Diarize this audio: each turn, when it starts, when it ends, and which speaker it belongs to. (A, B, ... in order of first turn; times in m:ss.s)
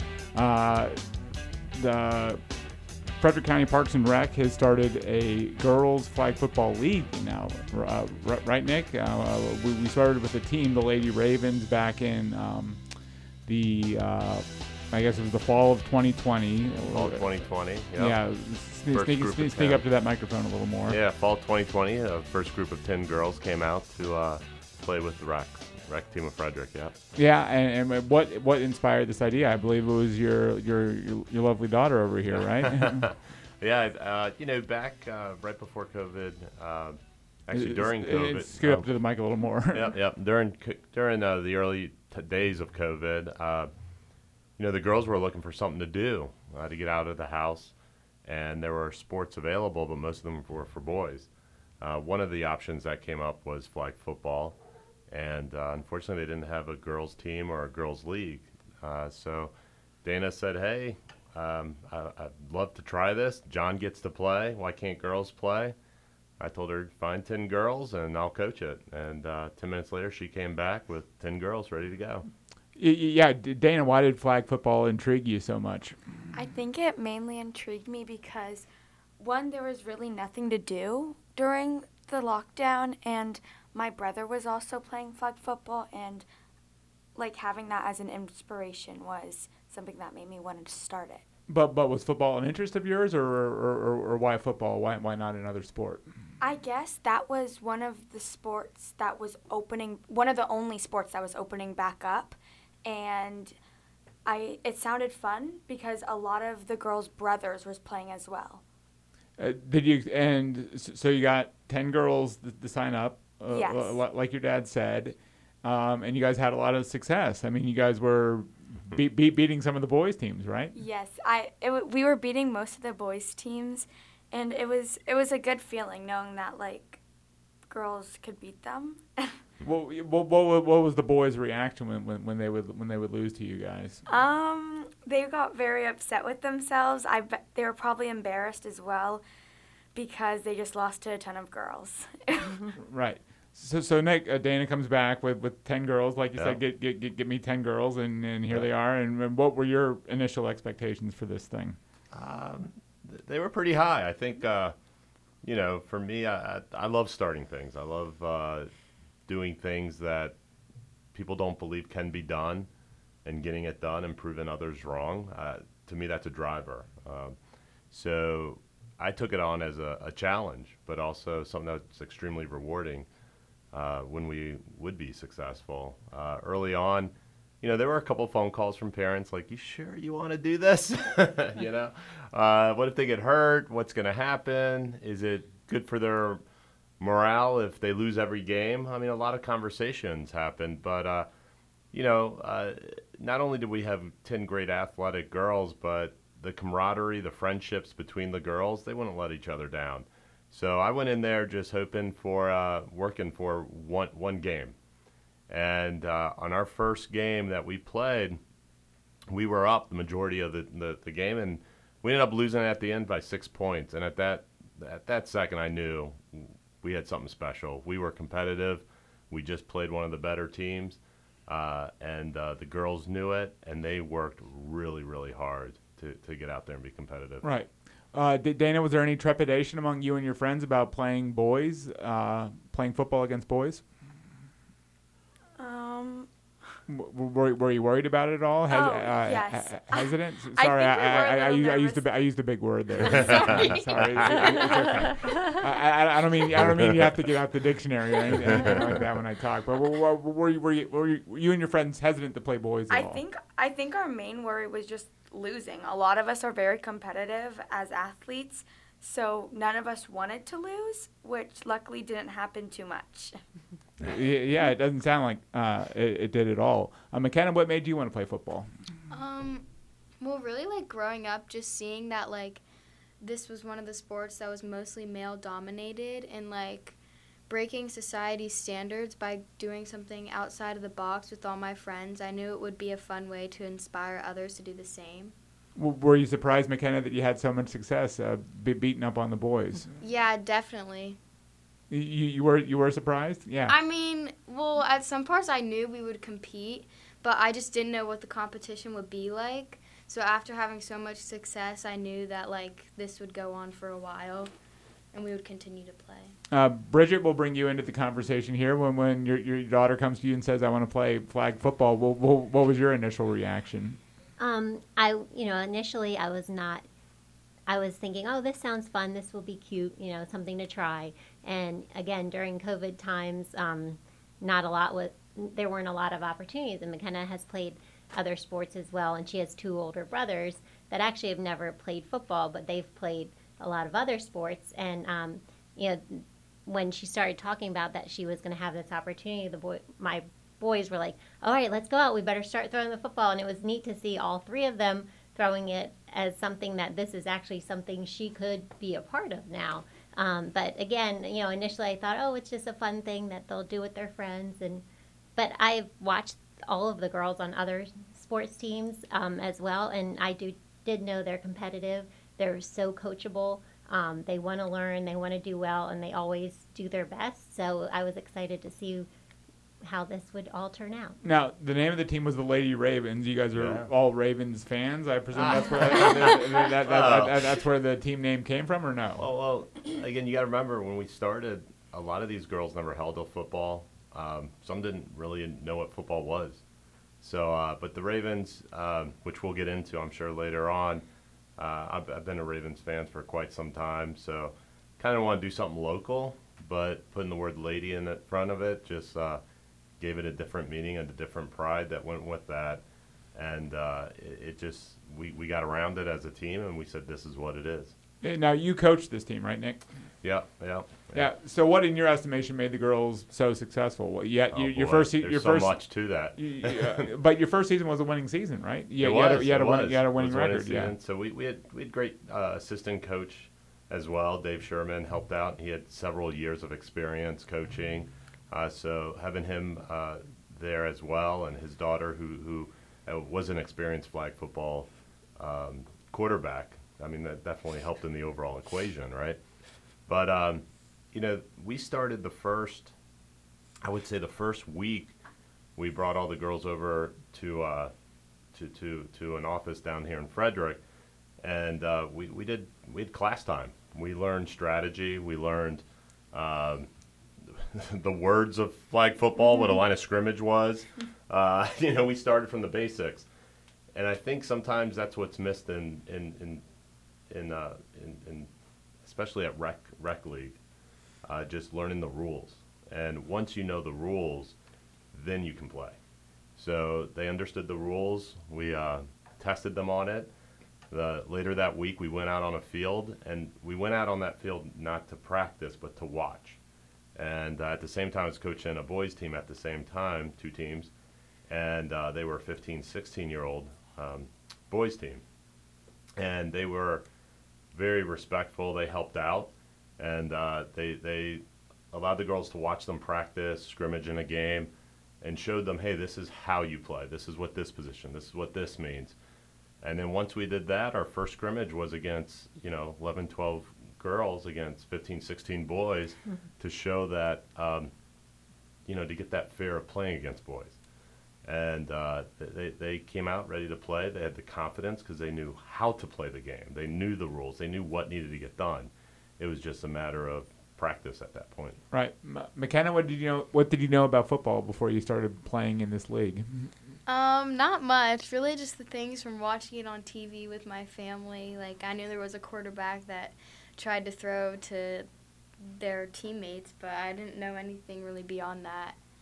0:00.3-0:02.6 A
0:03.2-0:12.9 A
0:13.4-0:17.4 A
0:16.9-0:18.2 B
0:18.0-0:21.0 A
0:18.9-0:19.8 B
0:20.9-0:27.0 B
0:27.2-0:33.1 A
0:32.5-0:38.9 B
0:37.5-0:39.9 A
0:39.7-0:43.7 B
0:44.6-0:51.3 B
0:51.8-0:54.6 B
0:55.1-0:59.5 B
1:00.0-1:05.7 B
1:06.4-1:12.2 B
1:12.8-1:16.0 A
1:16.3-1:18.7 C
1:19.2-1:26.2 C
1:27.2-1:31.2 C
1:31.5-1:36.0 A
1:36.4-1:43.5 C
1:44.2-1:48.6 C
1:49.4-2:00.7 A
1:53.5-1:54.0 C
2:00.7-2:07.0 C
2:07.7-2:09.4 C
2:09.6-2:14.0 A
2:14.0-2:19.2 C
2:19.9-2:22.7 C
2:22.8-2:31.8 A
2:32.1-2:34.7 B
2:35.4-2:38.7 B
2:39.3-2:40.3 B
2:41.1-2:42.7 B
2:43.2-2:47.4 B
2:47.9-2:53.1 B
2:53.7-3:06.4 B
3:07.0-3:11.3 B
3:11.9-3:24.7 B
3:25.5-3:28.4 B
3:29.3-3:47.4 B
3:47.4-3:53.8 A
3:55.6-3:56.3 C
3:56.9-4:13.2 A
3:58.7-4:02.1 C
4:03.0-4:04.3 B
4:03.1-4:04.6 C
4:08.4-4:09.0 B
4:12.9-4:23.4 C
4:24.0-4:28.7 A
4:29.1-4:29.6 D
4:30.2-4:32.6 D
4:33.2-4:37.0 D
4:37.5-4:45.3 D
4:45.8-4:49.9 A
4:50.0-4:51.2 D
4:51.9-4:53.7 A
4:53.7-5:04.5 D
5:05.1-5:06.3 D
5:06.5-5:14.0 A
5:14.4-5:16.8 E
5:17.7-5:54.8 E
5:55.4-6:09.1 E
6:09.8-6:11.2 E
6:11.2-6:19.2 A
6:13.5-6:13.9 B
6:15.3-6:17.5 B
6:19.2-6:26.6 B
6:27.2-6:31.0 B
6:31.6-6:39.4 B
6:40.0-6:42.8 B
6:43.3-6:47.9 B
6:48.2-6:49.8 A
6:50.2-6:51.3 B
6:51.1-7:00.9 A
6:54.5-6:57.1 B
6:59.0-7:19.4 B
7:20.1-7:22.9 B
7:23.8-7:25.1 B
7:25.8-7:27.9 B
7:28.5-7:30.8 B
7:31.4-7:36.9 B
7:37.4-7:43.3 B
7:43.9-7:46.6 B
7:47.3-7:48.5 B
7:49.0-7:50.6 B
7:51.2-7:54.5 B
7:55.1-7:55.9 B
7:56.6-8:00.3 B
8:00.9-8:06.6 B
8:07.2-8:10.9 B
8:11.5-8:15.2 B
8:16.2-8:17.0 B
8:17.7-8:29.1 B
8:29.8-8:37.9 B
8:38.8-8:40.8 B
8:41.4-8:51.8 B
8:51.9-8:56.7 A
8:57.0-9:05.1 D
9:05.6-9:09.0 D